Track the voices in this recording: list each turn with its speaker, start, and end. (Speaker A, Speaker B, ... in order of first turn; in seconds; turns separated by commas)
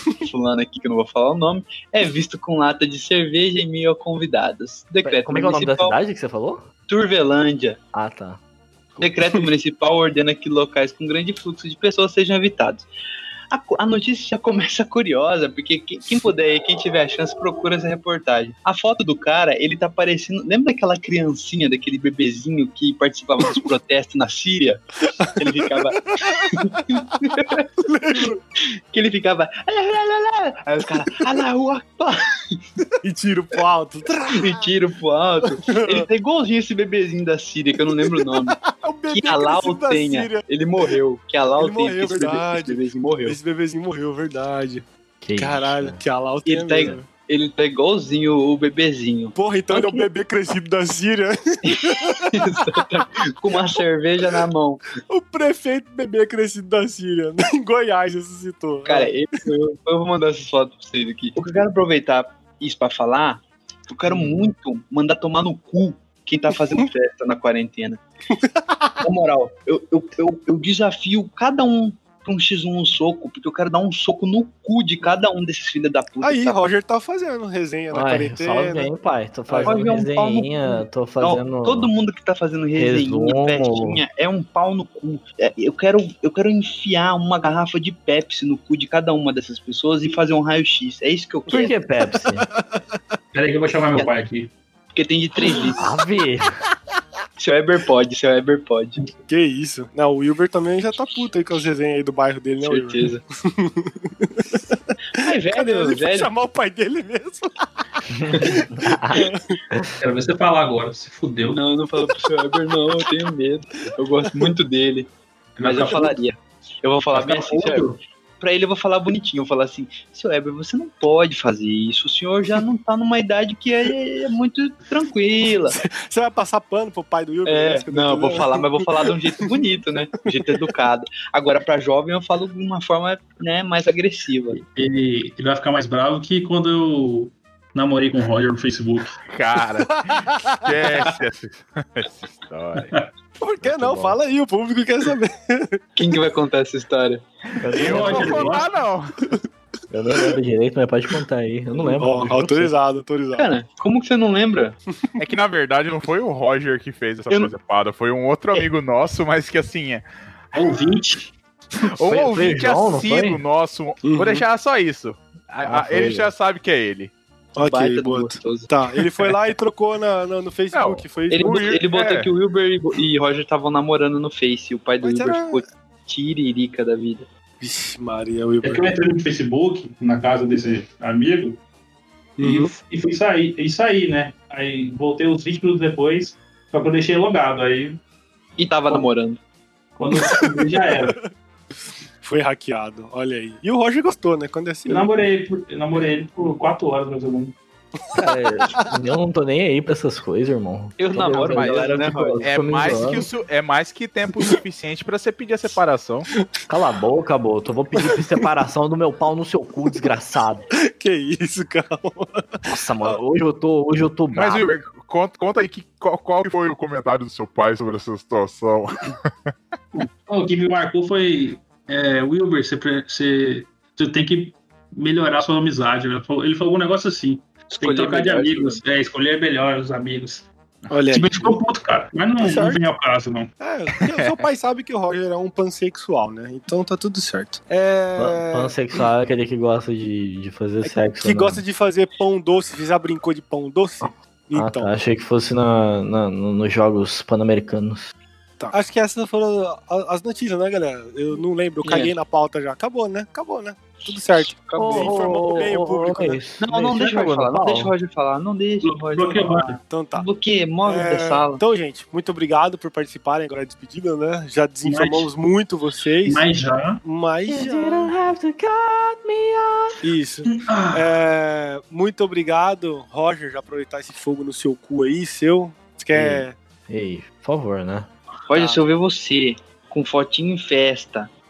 Speaker A: 0.2-6.0, Speaker B: 5.0-6.7, Speaker A: 6.9-7.8, Speaker B: 7.9-8.4, Speaker A: 9.0-12.9, Speaker A: 13.5-27.6, Speaker C: 25.2-26.8, Speaker C: 27.8-28.4, Speaker A: 28.9-32.6, Speaker C: 33.0-34.7, Speaker A: 34.3-43.4, Speaker C: 35.6-36.1, Speaker C: 38.0-40.4, Speaker C: 41.6-44.8, Speaker B: 45.2-46.0, Speaker C: 45.4-47.0, Speaker A: 46.5-50.0, Speaker C: 49.3-52.6, Speaker A: 51.7-54.9, Speaker C: 55.1-59.1, Speaker A: 58.9-68.0, Speaker C: 68.3-69.0, Speaker A: 69.0-76.7, Speaker C: 76.2-78.9, Speaker B: 77.9-81.9, Speaker C: 79.5-80.0, Speaker A: 79.6-91.8, Speaker B: 82.8-84.0, Speaker B: 91.5-92.5, Speaker C: 91.5-93.0, Speaker D: 93.3-94.5, Speaker A: 94.9-95.8, Speaker C: 95.5-95.7, Speaker B: 95.8-96.5, Speaker A: 97.4-99.0, Speaker C: 99.3-104.9, Speaker A: 102.6-103.2, Speaker A: 105.2-106.3, Speaker C: 105.5-109.5, Speaker B: 108.1-109.9, Speaker D: 110.0-111.6, Speaker A: 111.5-115.1, Speaker D: 115.6-116.2, Speaker A: 115.6-125.8, Speaker D: 117.1-118.0, Speaker C: 125.7-129.6, Speaker A: 127.5-134.6, Speaker C: 130.3-130.7, Speaker D: 134.5-139.2, Speaker E: 139.2-142.9, Speaker C: 140.1-140.4, Speaker D: 142.7-143.1, Speaker C: 143.4-145.8, Speaker B: 143.6-144.2, Speaker A: 145.9-147.2, Speaker B: 147.6-148.6, Speaker D: 147.8-148.7, Speaker E: 147.8-149.3, Speaker B: 149.9-152.7, Speaker C: 151.8-153.5, Speaker A: 153.3-154.8, Speaker E: 155.2-160.9, Speaker D: 160.6-161.3, Speaker E: 162.0-167.1, Speaker B: 162.0-163.4, Speaker C: 164.0-164.4, Speaker C: 165.7-166.2, Speaker B: 165.7-166.3, Speaker C: 167.6-171.5, Speaker A: 167.6-168.7, Speaker E: 170.7-172.3, Speaker A: 171.3-177.3, Speaker C: 175.0-175.6, Speaker C: 177.6-178.9, Speaker D: 178.6-181.6, Speaker C: 182.4-182.8, Speaker D: 182.4-188.0, Speaker A: 188.6-189.4, Speaker D: 190.0-191.2, Speaker C: 190.1-191.2, Speaker C: 192.2-195.1, Speaker D: 194.9-197.6, Speaker B: 198.1-203.2, Speaker A: 201.0-202.4, Speaker E: 201.3-206.3, Speaker B: 206.7-210.7, Speaker C: 208.0-208.4, Speaker C: 210.9-213.2, Speaker B: 212.7-214.6, Speaker E: 214.3-219.5, Speaker D: 219.9-230.5, Speaker A: 227.7-228.8, Speaker C: 230.9-231.6, Speaker D: 231.1-233.5, Speaker C: 232.4-232.8, Speaker C: 233.6-238.7, Speaker E: 234.1-234.4, Speaker B: 238.2-241.6, Speaker C: 240.8-244.9, Speaker B: 244.0-248.1, Speaker C: 248.7-256.4, Speaker A: 251.8-252.1, Speaker A: 254.3-255.7, Speaker B: 254.8-257.9, Speaker A: 256.6-261.6, Speaker D: 258.8-259.8, Speaker C: 259.8-260.2, Speaker C: 260.8-266.4, Speaker D: 264.8-265.3, Speaker D: 266.2-267.0, Speaker C: 267.0-268.1, Speaker B: 267.5-269.9, Speaker C: 270.0-276.6, Speaker D: 270.4-271.1, Speaker B: 276.1-278.1, Speaker A: 278.5-281.3